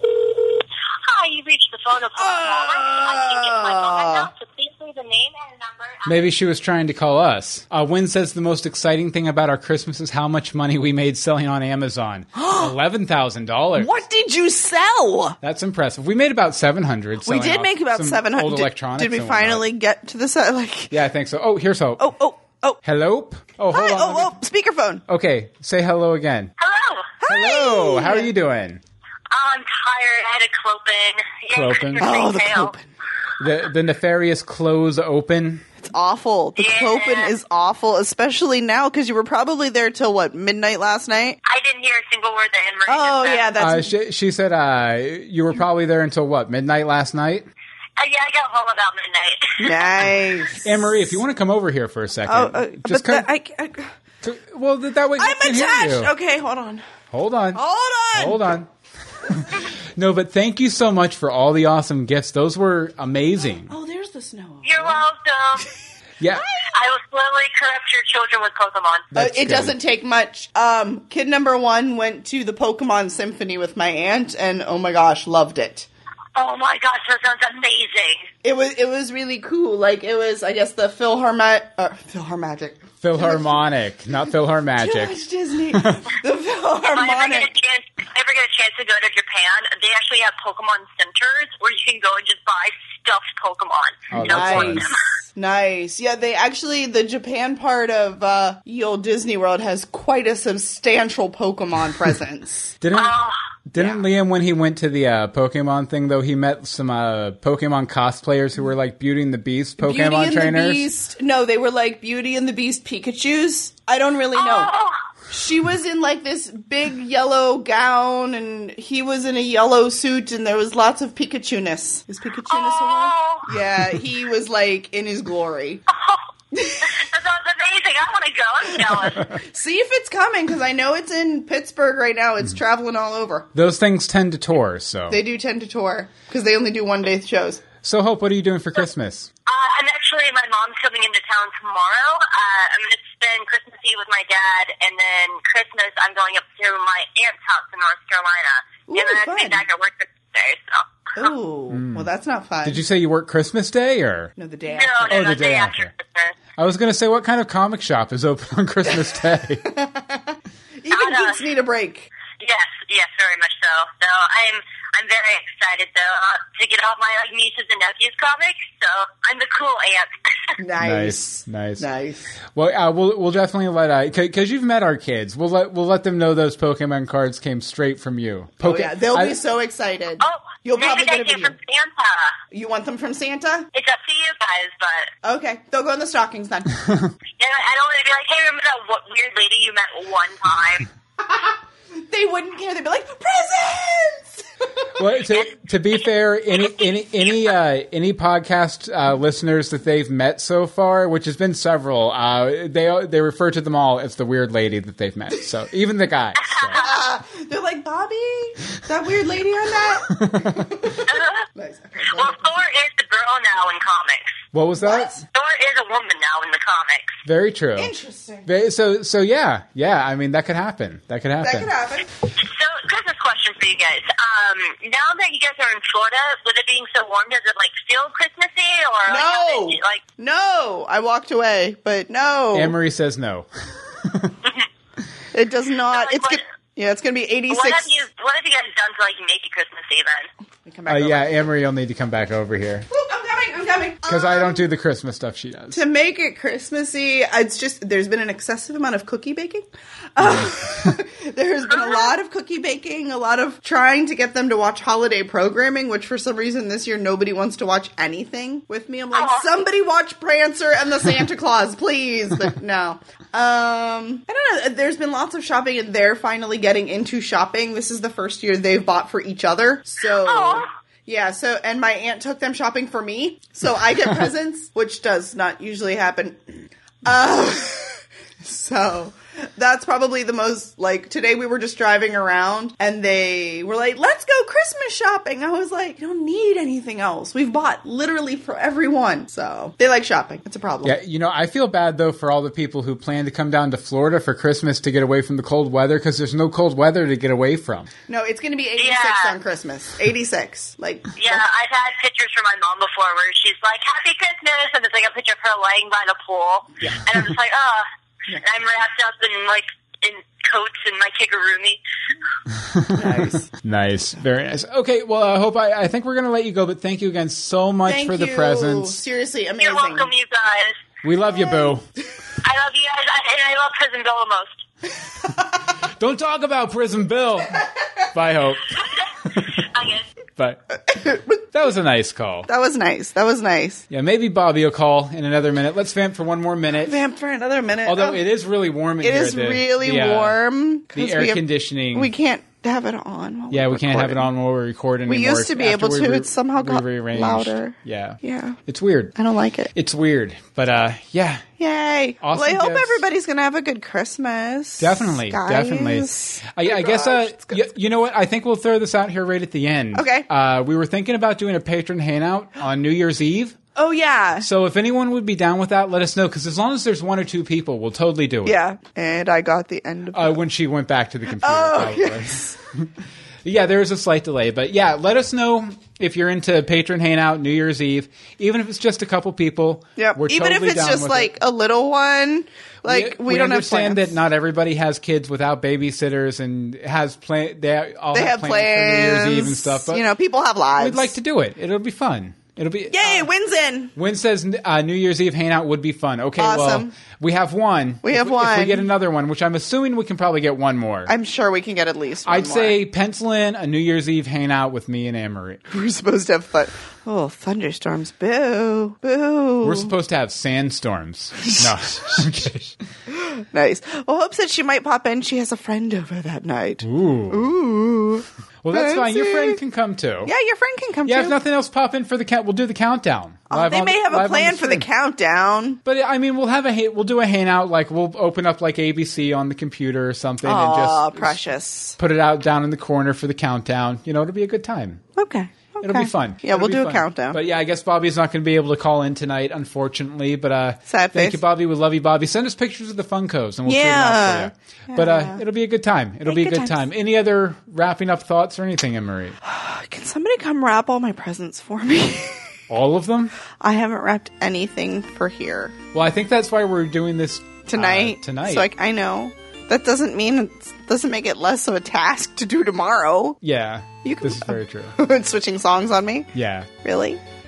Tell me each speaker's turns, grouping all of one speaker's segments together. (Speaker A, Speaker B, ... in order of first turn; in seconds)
Speaker A: 1.0-6.1, 26.6-27.2, 29.3-32.7, 36.6-37.3, 41.5-43.5, 48.0-50.0, 64.6-65.7, 66.7-69.1, 76.4-78.3, 86.9-95.0, 102.9-103.4, 114.3-115.0, 122.5-123.5, 125.9-126.2, 126.8-129.4, 139.5-151.3, 154.7-156.4, 160.9-161.4, 162.4-170.1, 180.2-182.4, 183.7-185.1, 187.4-190.9, 206.4-206.9, 211.1-211.4, 212.1-214.4, 215.3-217.2, 222.4-230.0, 235.9-236.4, 237.5-240.3, 251.7-252.1, 259.1-259.5, 270.2-270.7, 298.8-299.4, 301.2-311.8, 319.6-320.8, 322.4-324.6, 329.6-330.1
Speaker B: 2.1-4.3, 12.4-12.7, 13.8-15.4, 17.2-20.9, 22.0-22.8, 23.7-25.0, 27.2-28.3, 32.0-32.9, 35.8-41.4, 42.9-43.9, 49.6-51.0, 52.3-53.9, 55.2-56.9, 57.5-58.5, 63.7-65.0, 66.4-66.8, 69.2-75.9, 78.4-83.6, 84.8-87.5, 94.2-102.8, 103.8-104.0, 109.8-114.7, 115.3-125.8, 126.5-127.0, 129.3-133.5, 135.1-137.7, 148.9-149.7, 151.2-152.8, 154.4-155.3, 159.7-162.1, 170.6-172.4, 178.6-181.6, 182.5-183.7, 185.2-187.0, 191.2-194.5, 206.7-212.5, 214.8-215.2, 217.8-218.5, 221.4-222.2, 229.1-232.8, 235.3-238.0, 240.7-241.4, 242.9-244.7, 245.7-291.0, 298.1-301.4, 312.9-313.5, 317.9-320.1, 330.9-331.4, 332.5-333.8, 336.8-338.2, 339.0-344.3, 345.1-348.6, 349.2-349.7, 351.6-357.7, 359.9-360.3, 363.8-364.5, 368.4-370.4, 371.4-372.6, 380.0-384.1, 388.1-391.1, 392.9-393.9, 396.4-396.9, 398.0-398.9, 401.1-402.8, 405.7-409.9, 413.1-419.6, 420.3-421.4, 423.5-425.8, 430.4-432.0, 435.2-437.4, 440.9-441.4, 443.7-445.4, 446.3-446.8, 449.4-452.5, 453.5-455.8, 457.7-463.4, 464.0-466.3, 466.8-467.2
Speaker C: 6.1-13.9, 15.4-19.7, 20.9-22.1, 22.8-24.4, 25.1-26.5, 27.3-28.8, 31.5-32.1, 33.4-35.7, 43.6-47.5, 50.6-53.3, 54.2-56.1, 57.1-57.6, 58.1-58.7, 59.2-63.7, 66.2-66.5, 69.1-69.8, 83.0-85.2, 85.7-86.1, 94.1-94.8, 102.8-103.2, 103.7-110.9, 133.6-135.2, 137.8-139.3, 151.7-152.1, 152.6-154.3, 155.1-155.9, 156.6-159.7, 170.8-171.8, 172.5-179.4, 195.0-206.8, 210.1-210.7, 214.5-215.2, 217.2-217.9, 218.5-221.7, 232.5-233.5, 234.0-234.4, 240.9-242.9, 244.1-245.8, 250.2-250.9, 290.8-297.9, 312.6-319.0, 321.0-321.9, 325.9-327.6, 328.1-329.6, 330.4-330.8, 331.5-332.5, 333.9-337.0, 337.9-340.4, 340.9-342.1, 343.5-349.1, 349.7-351.4, 352.2-353.0, 354.8-363.6, 364.4-368.6, 370.1-372.9, 373.4-381.3, 382.9-390.1, 390.8-393.3, 393.9-401.1, 402.2-405.6, 409.6-412.8, 416.8-417.5, 418.6-420.3, 421.1-424.9, 425.9-431.4, 432.0-435.0, 435.8-449.4, 452.7-453.4, 455.9-458.7, 463.4-465.0, 466.3-466.7